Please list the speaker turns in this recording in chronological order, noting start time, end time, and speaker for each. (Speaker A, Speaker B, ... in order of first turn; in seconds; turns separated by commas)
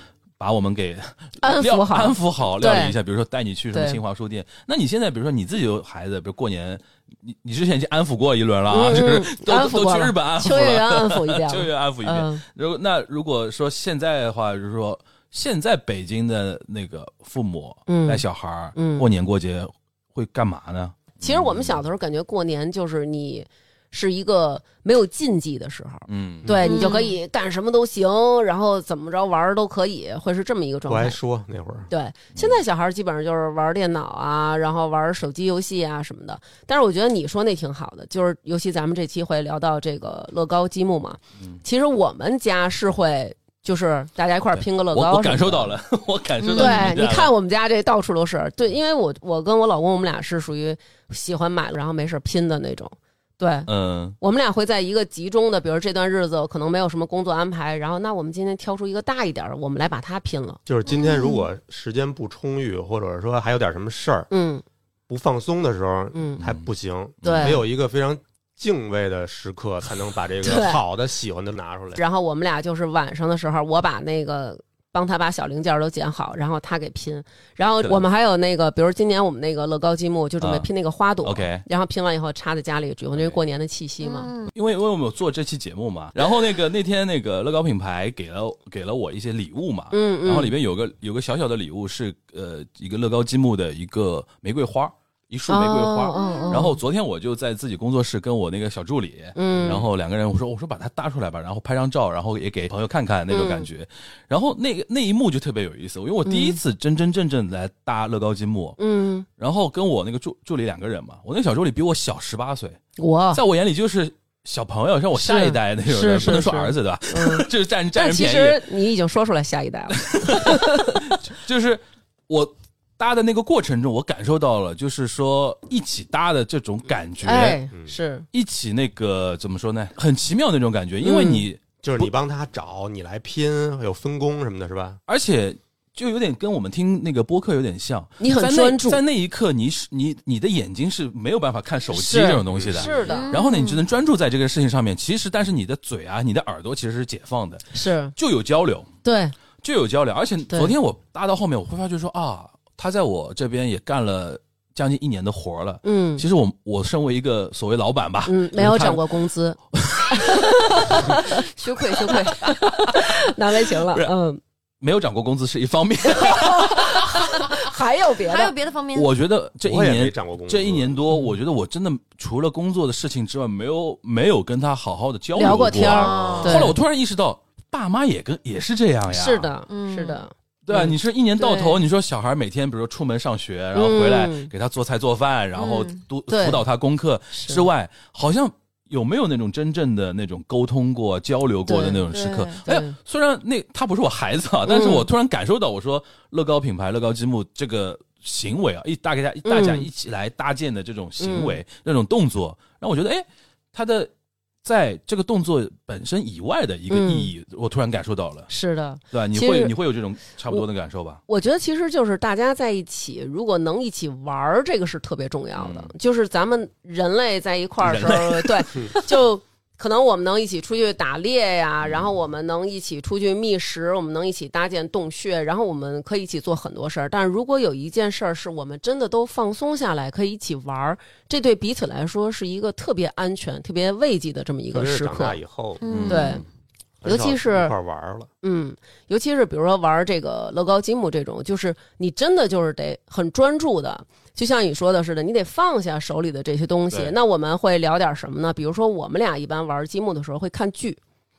Speaker A: 0.4-21.8, Speaker B: 1.4-3.0, Speaker B: 3.7-4.0, Speaker B: 8.7-12.4, Speaker B: 17.9-18.2, Speaker B: 18.7-19.1, Speaker B: 21.2-31.2, Speaker A: 26.1-26.9, Speaker C: 26.6-27.2, Speaker D: 30.9-31.9, Speaker B: 31.9-45.7, Speaker A: 44.6-47.3, Speaker C: 46.4-46.9, Speaker B: 46.5-53.7, Speaker A: 53.7-54.2, Speaker B: 54.2-60.6, Speaker D: 60.6-64.3, Speaker C: 60.9-61.4, Speaker B: 64.3-64.6, Speaker D: 65.1-72.0, Speaker B: 66.1-66.4, Speaker A: 66.4-66.7, Speaker A: 67.2-67.6, Speaker B: 67.2-67.6, Speaker B: 70.4-70.8, Speaker B: 71.9-84.3, Speaker A: 80.4-80.7, Speaker A: 81.2-81.7, Speaker C: 84.0-84.5, Speaker A: 84.5-108.8, Speaker B: 89.9-90.5, Speaker B: 95.5-96.8, Speaker C: 96.1-96.7, Speaker B: 99.3-99.8, Speaker B: 103.3-103.7, Speaker B: 106.2-106.6, Speaker B: 108.8-109.2, Speaker A: 109.4-112.8, Speaker B: 113.0-113.4, Speaker A: 113.3-118.6, Speaker B: 115.2-121.0, Speaker A: 119.9-127.6, Speaker B: 127.2-128.2, Speaker A: 128.3-132.1, Speaker B: 131.0-131.4, Speaker D: 131.8-135.0, Speaker A: 135.1-148.9, Speaker B: 138.2-139.0, Speaker B: 141.9-143.4, Speaker D: 142.5-142.9, Speaker C: 143.1-143.8, Speaker B: 147.7-148.1, Speaker B: 149.0-149.3, Speaker A: 149.6-159.1, Speaker B: 150.5-150.8, Speaker B: 155.8-156.2, Speaker B: 158.2-159.6, Speaker A: 159.7-160.9, Speaker B: 160.1-161.4, Speaker C: 161.1-162.5, Speaker B: 162.2-164.4, Speaker A: 164.8-167.4, Speaker B: 166.1-168.5, Speaker C: 168.2-169.1, Speaker A: 168.9-179.5, Speaker D: 169.6-171.0, Speaker B: 175.3-176.8, Speaker C: 175.8-176.7, Speaker B: 179.1-180.9, Speaker C: 179.7-180.2, Speaker A: 180.7-204.1, Speaker C: 181.4-181.7, Speaker B: 183.7-184.5, Speaker C: 185.6-185.9, Speaker B: 186.3-186.6, Speaker B: 187.3-187.7, Speaker B: 191.7-192.0, Speaker C: 192.1-192.6, Speaker B: 192.6-192.9, Speaker B: 194.7-195.1, Speaker B: 199.4-199.9, Speaker B: 201.2-201.6, Speaker A: 204.6-208.5, Speaker B: 206.9-207.3, Speaker B: 208.5-209.7, Speaker A: 209.1-211.2, Speaker B: 211.3-235.4, Speaker A: 215.6-215.9, Speaker A: 217.8-219.1, Speaker D: 234.7-235.8, Speaker C: 235.8-236.4, Speaker A: 235.8-236.4, Speaker B: 236.1-236.4, Speaker D: 237.0-238.3, Speaker B: 237.0-237.7, Speaker B: 238.4-251.0